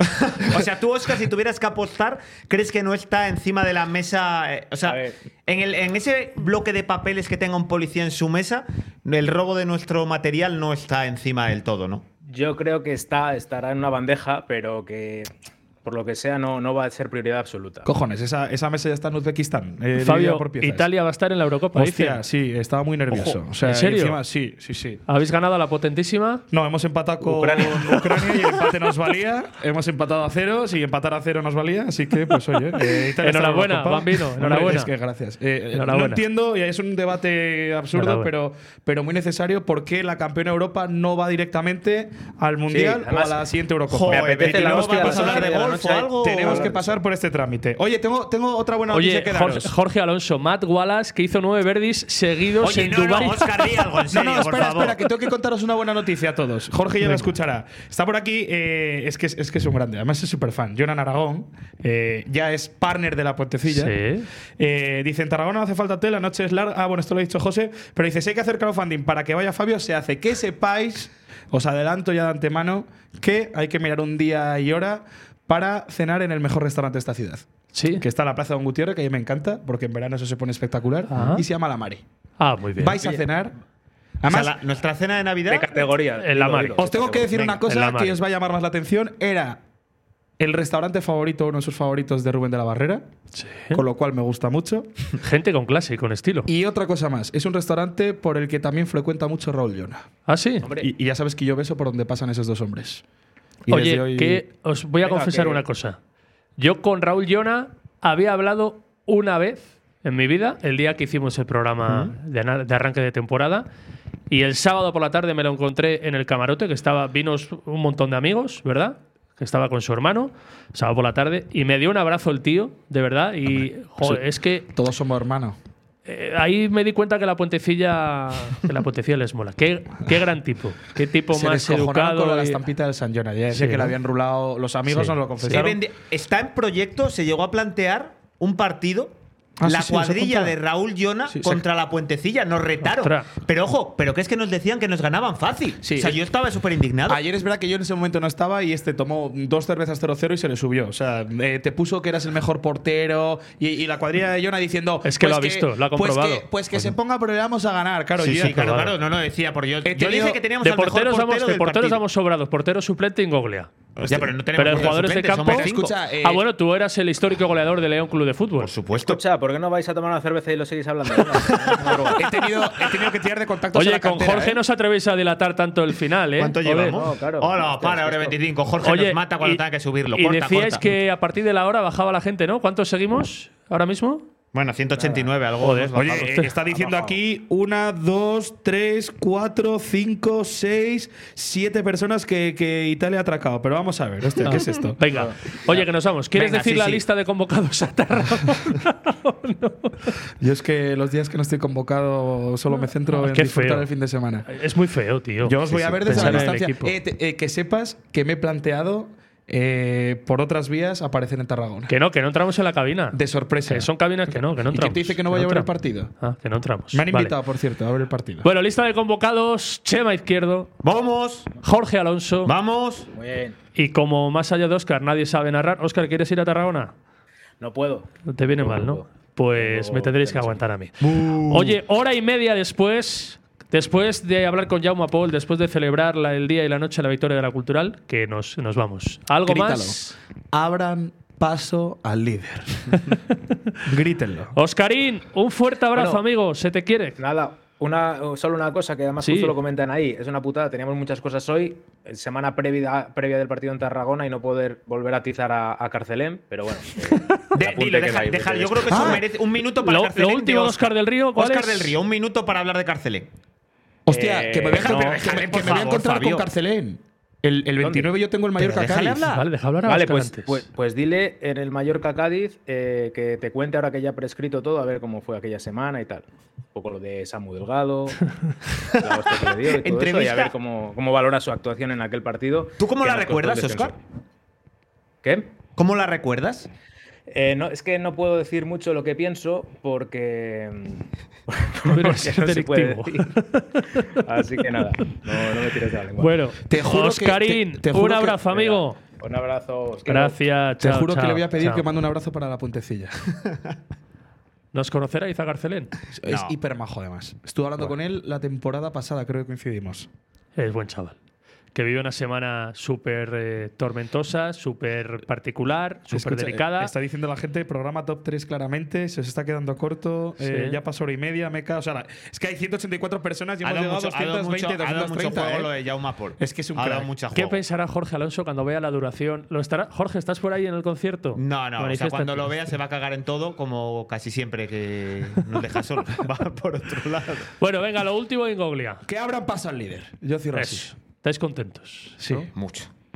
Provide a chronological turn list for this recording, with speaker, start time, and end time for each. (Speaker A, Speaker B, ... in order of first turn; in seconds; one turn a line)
Speaker A: 0.2-12.1
Speaker B: 4.8-5.2
Speaker B: 12.2-15.3
Speaker B: 15.8-17.9
Speaker C: 17.9-20.9
Speaker D: 20.0-22.2
Speaker C: 21.7-25.0
Speaker D: 23.1-24.2
Speaker D: 25.1-26.4
Speaker C: 26.5-49.7
Speaker B: 27.2-27.9
Speaker D: 27.6-28.5
Speaker D: 32.9-34.9
Speaker D: 35.7-36.2
Speaker D: 37.9-38.3
Speaker B: 42.7-43.4
Speaker A: 43.9-46.7
Speaker B: 44.1-47.0
Speaker D: 48.9-53.9
Speaker A: 52.6-55.0
Speaker C: 54.1-64.0
Speaker D: 57.0-57.3
Speaker D: 63.7-64.3
Speaker C: 64.6-82.0
Speaker D: 77.7-78.0
Speaker D: 81.1-81.4
Speaker D: 82.4-83.0
Speaker C: 82.8-83.5
Speaker C: 84.2-84.5
Speaker A: 84.3-85.9
Speaker B: 85.5-87.4
Speaker D: 86.2-86.8
Speaker C: 86.8-89.6
Speaker A: 87.1-87.6
Speaker D: 87.5-88.2
Speaker C: 90.4-93.1
Speaker D: 93.3-93.8
Speaker C: 93.7-94.9
Speaker D: 95.2-96.5
Speaker C: 96.5-100.1
Speaker D: 100.3-100.7
Speaker B: 100.6-100.9
Speaker C: 100.8-103.0
Speaker C: 103.7-104.4
Speaker D: 103.7-106.0
Speaker B: 105.0-105.6
Speaker D: 106.6-113.7
Speaker D: 114.3-124.7
Speaker C: 123.5-125.6
Speaker D: 126.1-132.6
Speaker C: 131.3-135.8
Speaker D: 133.5-134.0
Speaker D: 134.9-135.7
Speaker A: 135.4-147.2
Speaker C: 139.6-140.6
Speaker C: 141.3-141.6
Speaker D: 142.8-143.3
Speaker C: 145.8-146.2
Speaker C: 147.1-158.7
Speaker D: 155.0-156.5
Speaker A: 158.2-162.0
Speaker D: 158.3-158.9
Speaker C: 159.8-160.4
Speaker D: 160.6-163.7
Speaker A: 164.0-165.9
Speaker C: 164.1-166.4
Speaker D: 164.5-168.7
Speaker A: 168.6-169.2
Speaker B: 169.0-172.3
Speaker D: 171.3-173.1
Speaker C: 172.2-174.6
Speaker D: 173.7-177.0
Speaker A: 176.4-180.8
Speaker B: 176.9-178.4
Speaker D: 178.8-179.6
Speaker D: 180.1-184.3
Speaker A: 184.5-186.5
Speaker B: 184.9-185.3
Speaker D: 185.6-186.5
Speaker C: 185.9-195.0
Speaker B: 186.7-187.2
Speaker D: 194.4-200.2
Speaker B: 195.1-195.8
Speaker A: 196.3-197.0
Speaker C: 200.4-204.5
Speaker D: 202.8-203.9
Speaker D: 204.5-207.0
Speaker C: 205.4-211.9
Speaker A: 205.7-206.5
Speaker D: 211.9-215.7
Speaker C: 213.1-213.9
Speaker C: 214.7-216.1
Speaker D: 216.2-217.3
Speaker C: 216.9-218.5
Speaker D: 218.4-220.7
Speaker A: 220.8-221.5
Speaker D: 221.6-222.5
Speaker A: 222.5-223.1
Speaker B: 223.1-223.6
Speaker D: 223.8-226.9
Speaker B: 227.6-230.6
Speaker D: 228.3-240.2
Speaker C: 239.4-243.0
Speaker C: 243.8-244.6
Speaker D: 244.6-247.2
Speaker B: 245.9-246.2
Speaker B: 247.2-259.2
Speaker D: 249.2-249.6
Speaker D: 257.0-257.4
Speaker A: 257.5-263.3
Speaker C: 258.9-259.3
Speaker D: 259.8-262.0
Speaker C: 264.1-269.3
Speaker B: 264.1-265.5
Speaker A: 264.8-266.5
Speaker B: 267.8-268.1
Speaker A: 268.6-269.4
Speaker D: 269.2-270.7
Speaker B: 269.9-278.2
Speaker B: 279.0-284.0
Speaker A: 279.6-280.5
Speaker A: 282.8-283.9
Speaker B: 285.2-285.6
Speaker A: 285.8-286.7
Speaker B: 287.3-293.4
Speaker D: 291.9-294.0
Speaker B: 294.2-296.4
Speaker D: 296.2-299.0
Speaker C: 296.7-298.4
Speaker B: 298.5-300.4
Speaker D: 300.1-301.9
Speaker C: 300.8-303.1
Speaker D: 304.7-305.9
Speaker C: 306.2-310.1
Speaker A: 306.3-306.5
Speaker D: 310.6-311.2
Speaker D: 311.7-316.9
Speaker C: 316.1-325.7
Speaker D: 320.4-320.8
Speaker A: 323.6-327.6
Speaker C: 326.4-327.1
Speaker D: 327.3-332.6
Speaker A: 331.4-337.5
Speaker D: 337.6-339.0
Speaker C: 339.1-340.9
Speaker D: 340.5-342.2
Speaker C: 342.2-342.5
Speaker A: 342.5-342.9